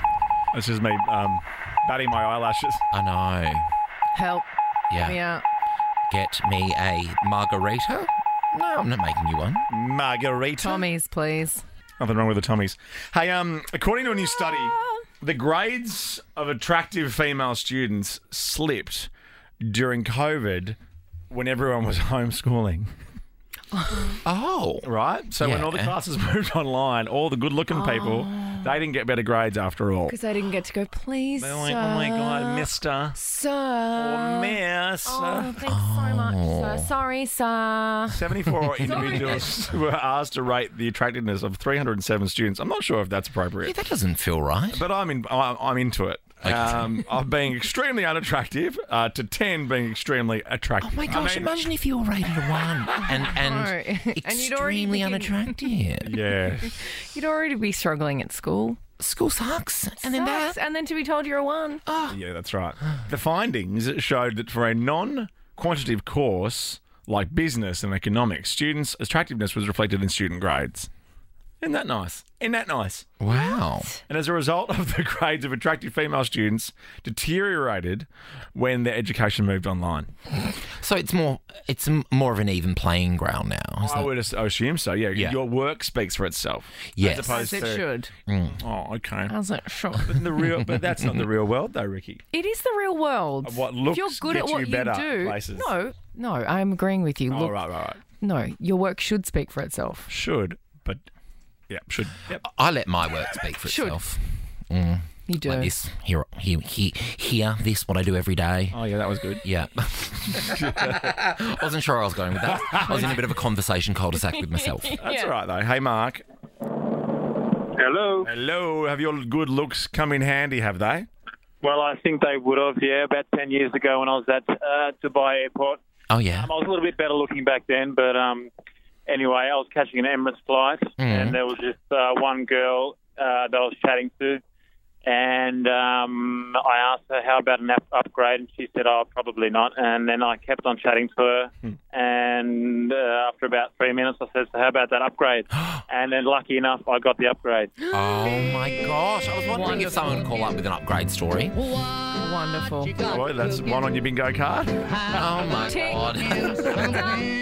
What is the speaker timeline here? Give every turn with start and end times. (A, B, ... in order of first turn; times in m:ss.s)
0:00.5-0:02.8 A
0:02.9-0:03.7 B
0:04.1-0:04.5 C
0:04.9-0:05.2 B
0:05.0-0:05.4 C
0:06.1-0:09.7 B
0:09.7-0:10.9 A
0:10.6-0:11.6 C
0:12.0-0:19.1 A
0:19.6-0:20.8 A
0:21.3-0:22.9 A
0:23.7-0:24.2 C
0:24.2-0:24.9 B
0:24.8-0:30.2 A
0:25.4-0:25.9 B
0:27.7-0:28.6 C
0:30.1-0:39.5 C
0:31.4-0:33.2 A
0:34.0-0:35.6 A
0:35.6-0:36.9 B
0:38.1-0:43.7 A
0:43.6-0:44.8 B
0:44.7-0:51.6 A
0:46.4-0:47.0 B
0:50.8-0:56.2 B
0:53.0-0:55.7 C
0:56.0-0:56.7 A
0:56.7-0:58.8 C
0:59.0-1:00.6 B
1:00.0-1:01.8 C
1:01.9-1:02.2 B
1:02.1-1:10.9 A
1:11.6-1:13.2 A
1:13.2-1:13.9 B
1:14.0-1:20.1 A
1:20.4-1:24.1 B
1:23.8-1:27.8 A
1:27.0-1:27.5 B
1:27.2-1:28.1 C
1:28.3-1:28.6 B
1:28.6-1:29.3 A
1:29.3-1:30.3 C
1:30.0-1:32.2 A
1:32.3-1:37.6 C
1:33.4-1:35.7 A
1:37.3-1:38.0 A
1:38.2-1:40.1 C
1:40.1-1:41.0 A
1:41.7-1:42.4 A
1:42.4-1:48.8 B
1:43.6-1:44.0 C
1:45.3-1:45.7 C
1:48.7-1:49.5 A
1:49.4-1:55.0 B
1:50.3-1:51.1 A
1:52.8-1:53.1 A
1:54.9-1:55.3 C
1:55.0-1:56.2 A
1:57.8-1:58.3 D
1:58.2-2:01.1 A
2:01.6-2:05.8 D
2:06.1-2:06.5 B
2:06.3-2:08.5 D
2:09.1-2:14.4 D
2:11.0-2:11.4 B
2:15.0-2:27.7 D
2:27.9-2:31.6 B
2:29.5-2:30.0 C
2:32.1-2:33.0 C
2:33.0-2:34.9 A
2:35.1-2:37.2 B
2:35.7-2:36.1 C